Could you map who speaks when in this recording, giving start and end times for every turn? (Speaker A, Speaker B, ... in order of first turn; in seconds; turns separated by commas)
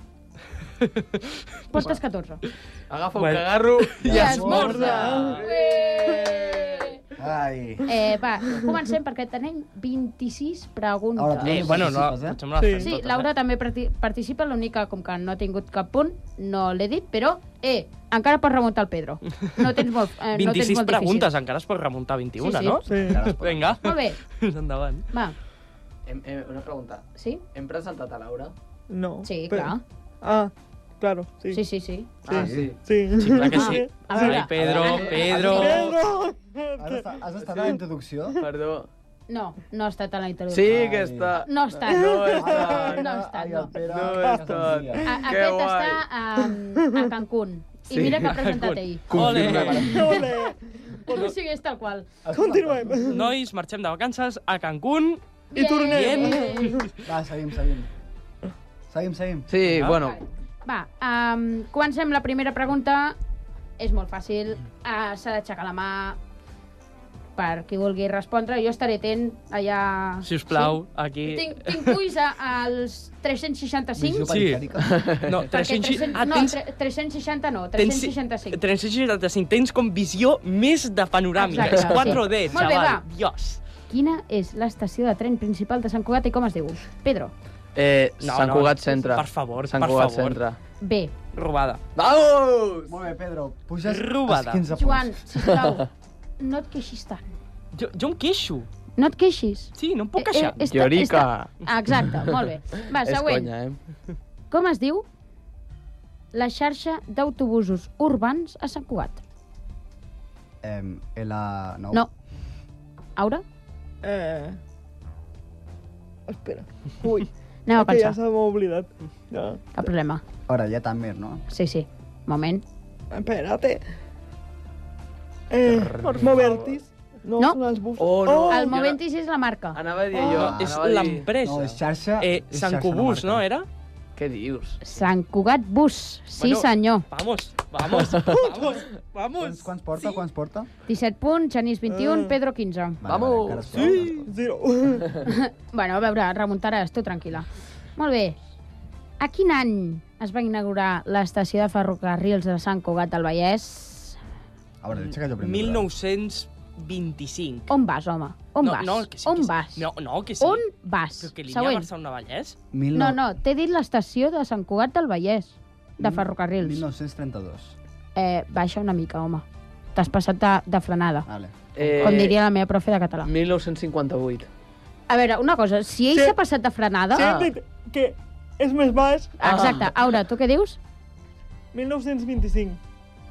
Speaker A: 1.7-2.4, Speaker B: 2.9-6.8, Speaker C: 3.2-5.4, Speaker D: 4.0-4.9, Speaker A: 4.1-6.9, Speaker E: 4.5-5.4, Speaker D: 7.2-7.9, Speaker A: 7.9-11.8, Speaker D: 11.2-12.4, Speaker C: 11.4-13.3, Speaker E: 12.6-12.9, Speaker A: 12.8-21.3, Speaker C: 20.3-25.1, Speaker A: 22.4-22.8, Speaker E: 22.9-23.2, Speaker D: 22.9-23.9, Speaker A: 23.8-24.2, Speaker B: 26.1-28.5, Speaker A: 27.2-27.4, Speaker E: 28.9-31.6, Speaker A: 29.2-29.8, Speaker A: 31.5-32.3, Speaker B: 32.2-32.8, Speaker E: 32.3-34.3, Speaker D: 32.3-32.7, Speaker C: 33.2-36.0, Speaker A: 33.5-35.7, Speaker D: 34.6-35.8, Speaker B: 34.6-35.5, Speaker E: 35.5-37.7, Speaker D: 36.8-38.4, Speaker B: 37.4-37.8, Speaker B: 38.4-38.9, Speaker A: 39.3-40.8, Speaker B: 40.5-43.1, Speaker D: 40.6-41.4, Speaker A: 41.5-42.4, Speaker E: 41.9-43.1, Speaker D: 42.5-45.1, Speaker A: 43.0-43.8, Speaker B: 43.9-46.1, Speaker E: 44.2-44.5, Speaker A: 45.0-49.0, Speaker B: 47.9-48.4, Speaker C: 48.2-50.1, Speaker B: 49.1-50.0, Speaker D: 49.2-50.0, Speaker E: 49.9-51.3, Speaker A: 51.1-52.2, Speaker D: 52.2-53.0, Speaker E: 52.3-53.3, Speaker C: 53.1-55.2, Speaker A: 55.5-56.8, Speaker E: 55.5-56.8, Speaker C: 55.9-56.8, Speaker D: 57.0-57.9, Speaker D: 58.9-59.5, Speaker B: 59.5-60.2, Speaker C: 59.6-60.0, Speaker A: 60.0-63.2, Speaker A: 63.8-66.2, Speaker A: 67.4-74.4, Speaker C: 70.2-72.0, Speaker D: 74.0-74.9, Speaker C: 74.3-74.6, Speaker B: 74.9-75.3, Speaker C: 75.2-76.6, Speaker A: 75.5-78.6, Speaker C: 77.8-83.6, Speaker A: 81.4-83.0, Speaker B: 81.6-82.1, Speaker A: 83.9-87.3, Speaker B: 87.8-90.6, Speaker C: 88.2-90.4, Speaker A: 90.8-91.1, Speaker C: 91.3-91.8, Speaker B: 92.0-93.0, Speaker D: 92.9-95.2, Speaker C: 93.8-94.7, Speaker A: 94.7-95.9, Speaker B: 95.6-95.8, Speaker A: 96.4-97.2, Speaker C: 97.7-98.7, Speaker A: 99.0-103.5, Speaker C: 99.8-100.6, Speaker B: 100.7-101.5, Speaker B: 103.0-103.8, Speaker A: 104.5-105.1, Speaker A: 106.3-109.2, Speaker D: 110.6-112.0, Speaker A: 113.2-113.4, Speaker E: 114.0-114.6, Speaker E: 116.3-119.9, Speaker A: 117.7-118.2, Speaker A: 119.7-120.2, Speaker D: 120.5-121.4, Speaker A: 121.5-122.6, Speaker E: 123.1-123.8, Speaker E: 125.5-128.7, Speaker B: 125.7-126.7, Speaker B: 128.0-129.0, Speaker A: 128.5-129.8, Speaker B: 129.7-131.3, Speaker C: 130.2-133.7, Speaker D: 130.4-130.7, Speaker D: 131.4-133.4, Speaker B: 134.2-134.8, Speaker A: 134.8-137.1, Speaker C: 136.4-140.1, Speaker B: 138.1-138.4, Speaker E: 138.4-138.8, Speaker D: 139.4-140.7, Speaker A: 140.9-143.0, Speaker E: 141.9-142.3, Speaker D: 143.0-144.3, Speaker B: 143.1-143.9, Speaker C: 143.8-144.1, Speaker E: 144.2-145.2, Speaker A: 145.2-148.4, Speaker A: 149.2-154.2, Speaker D: 154.8-155.9, Speaker C: 155.0-157.7, Speaker A: 157.7-159.9, Speaker C: 158.6-160.6, Speaker A: 160.4-161.9, Speaker C: 161.2-162.6, Speaker D: 162.7-163.2, Speaker A: 162.9-166.8, Speaker D: 166.0-167.8, Speaker A: 168.2-171.3, Speaker D: 171.3-172.3, Speaker B: 171.8-172.4, Speaker A: 172.0-173.3, Speaker B: 173.2-174.5, Speaker A: 175.1-177.3, Speaker E: 177.1-179.4, Speaker B: 177.2-177.5, Speaker A: 179.4-180.8, Speaker B: 179.4-179.9, Speaker E: 181.7-182.8